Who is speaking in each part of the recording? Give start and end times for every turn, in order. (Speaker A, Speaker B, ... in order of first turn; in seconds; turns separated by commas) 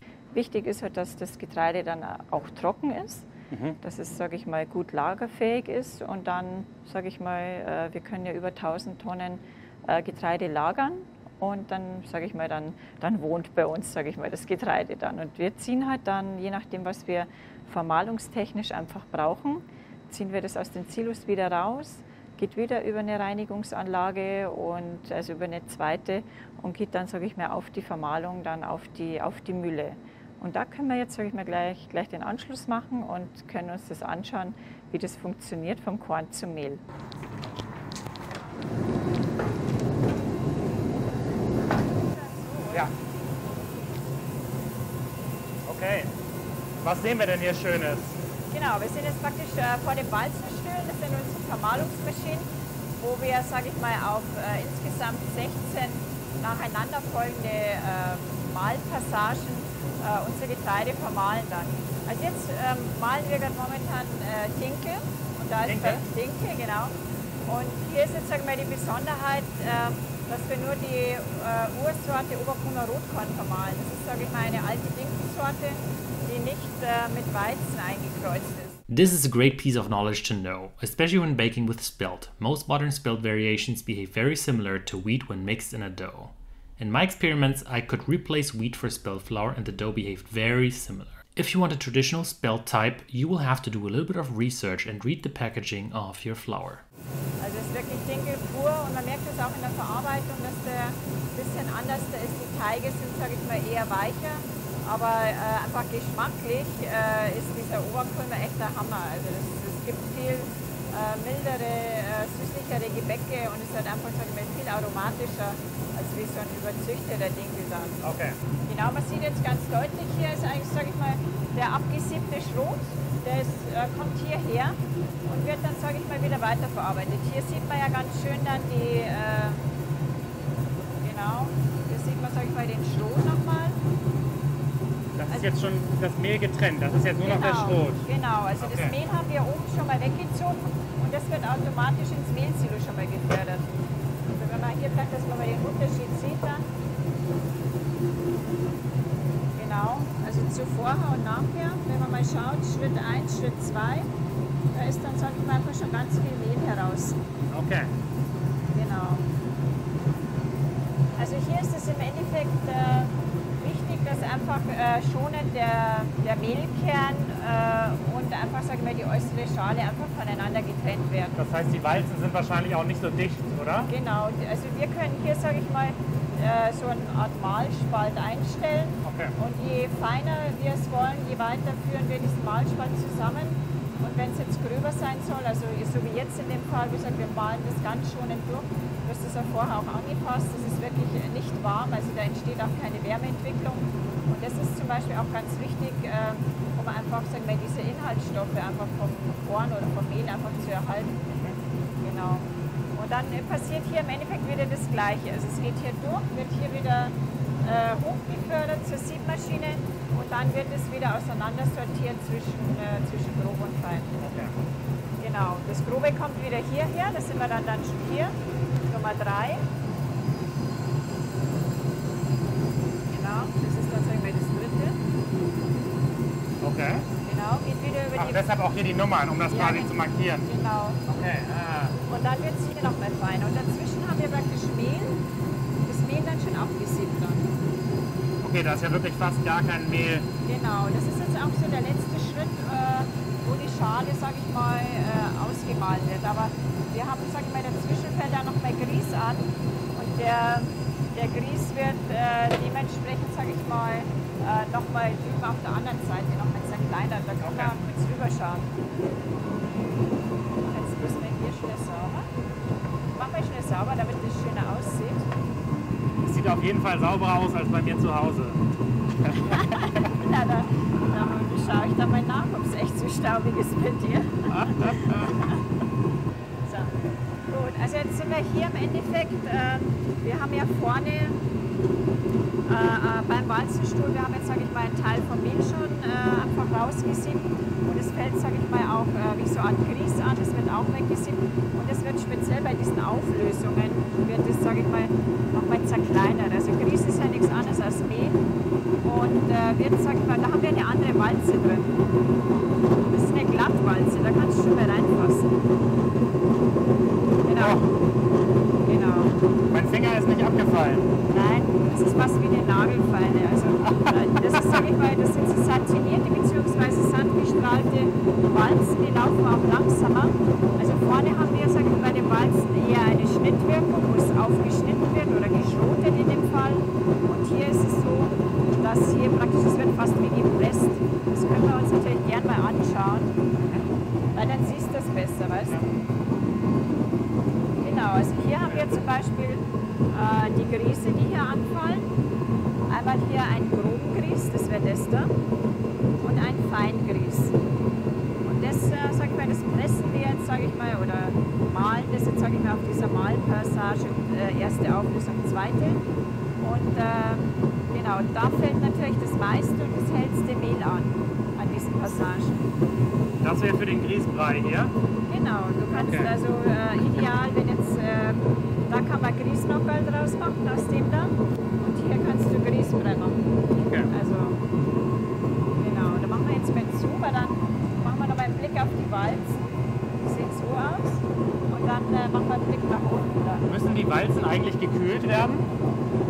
Speaker A: 0.3-3.3, Speaker B: 3.5-3.8, Speaker A: 3.8-36.8, Speaker A: 42.0-42.9, Speaker B: 45.6-46.1, Speaker B: 46.8-48.2, Speaker A: 48.5-67.0, Speaker B: 65.6-66.0, Speaker A: 67.5-78.8, Speaker C: 78.9-96.8, Speaker A: 97.4-118.0, Speaker B: 118.0-118.4, Speaker A: 118.7-129.7, Speaker A: 131.0-133.8, Speaker B: 135.2-138.0, Speaker A: 137.2-143.7, Speaker B: 138.6-138.9, Speaker A: 144.3-146.7, Speaker A: 149.6-154.1, Speaker A: 154.7-157.2, Speaker B: 157.5-157.9, Speaker A: 158.7-159.3, Speaker A: 161.2-171.4, Speaker B: 171.3-173.9, Speaker A: 173.9-201.2, Speaker B: 179.0-179.3, Speaker B: 201.3-201.6, Speaker A: 202.0-214.2, Speaker B: 214.2-214.5, Speaker A: 215.2-218.3, Speaker A: 218.9-219.6, Speaker A: 223.1-225.0, Speaker B: 226.6-227.1, Speaker A: 227.2-228.4, Speaker B: 228.1-230.5, Speaker A: 229.5-231.0, Speaker B: 231.1-232.0, Speaker A: 232.1-235.2, Speaker A: 235.8-237.6, Speaker B: 238.4-240.3, Speaker A: 240.4-258.7, Speaker B: 257.4-257.8, Speaker A: 260.6-262.3, Speaker A: 263.1-265.3, Speaker B: 266.2-268.6, Speaker B: 269.2-270.0, Speaker A: 269.4-275.6, Speaker B: 274.5-275.3, Speaker A: 276.6-276.9, Speaker A: 277.5-281.4, Speaker A: 282.7-298.4, Speaker A: 299.0-302.0, Speaker A: 303.1-305.5, Speaker A: 307.4-307.8, Speaker B: 307.6-307.9, Speaker A: 308.8-309.4, Speaker B: 309.7-311.1, Speaker A: 311.3-333.4, Speaker B: 313.9-314.8, Speaker B: 333.6-333.9, Speaker A: 334.3-335.8, Speaker A: 337.8-342.1, Speaker B: 338.6-339.0, Speaker A: 342.9-345.3, Speaker A: 346.2-347.6, Speaker A: 348.4-356.0, Speaker A: 356.6-362.6, Speaker B: 363.4-364.9, Speaker A: 365.3-373.5, Speaker B: 365.9-366.3, Speaker B: 373.8-374.1, Speaker A: 374.1-374.6, Speaker A: 375.8-383.6, Speaker B: 383.7-385.7